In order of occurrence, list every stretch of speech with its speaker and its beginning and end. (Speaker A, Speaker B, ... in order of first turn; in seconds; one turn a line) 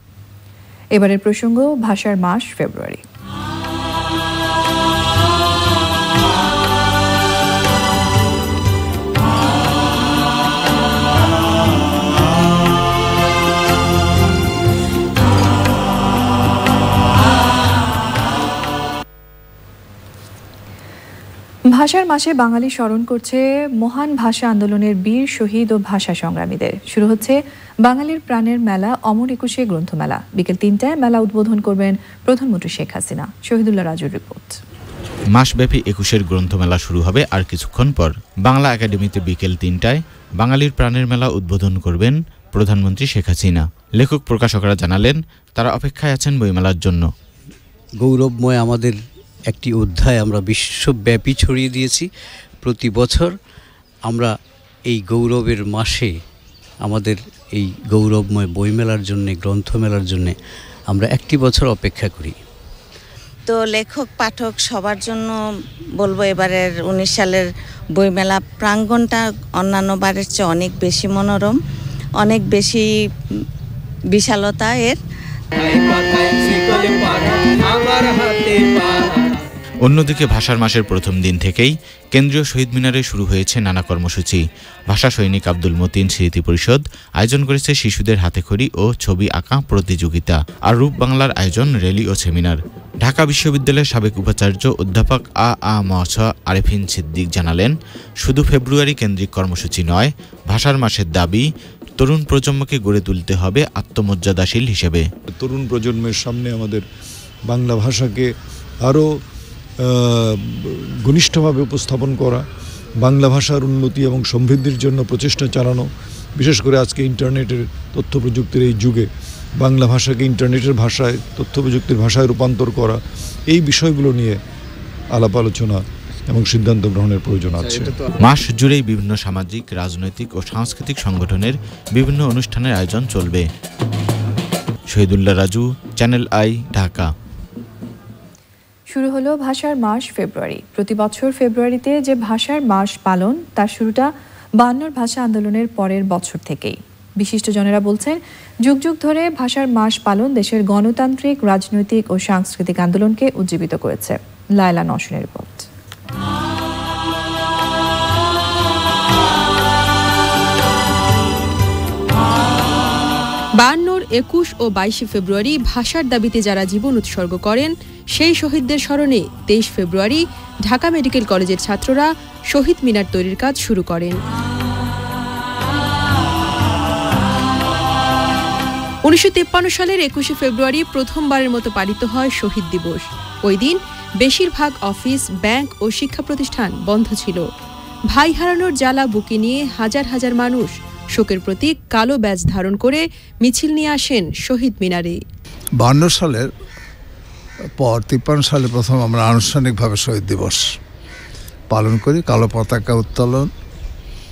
Speaker A: 0.9-3.0
Speaker A: 21.7-34.6
Speaker B: 35.3-47.1
Speaker C: 48.0-49.0
Speaker C: 49.5-52.1
Speaker C: 52.6-53.3
Speaker C: 54.0-54.3
Speaker C: 54.9-56.2
Speaker C: 56.8-60.3
Speaker C: 60.9-62.4
Speaker D: 63.5-65.4
Speaker D: 66.0-71.6
Speaker D: 72.2-72.9
Speaker D: 74.1-75.0
Speaker B: 79.8-101.5
Speaker B: 102.0-105.0
Speaker E: 105.3-106.8
Speaker E: 107.5-108.3
Speaker E: 108.8-109.2
Speaker E: 109.8-112.4
Speaker E: 113.0-124.4
Speaker E: 125.1-128.0
Speaker B: 128.2-133.5
Speaker B: 134.9-137.1
Speaker A: 138.9-155.7
Speaker F: 163.6-174.2
Speaker F: 179.0-187.5
Speaker F: 188.1-195.2
Speaker G: 195.8-196.5
Speaker G: 197.8-200.6
Speaker G: 201.7-203.5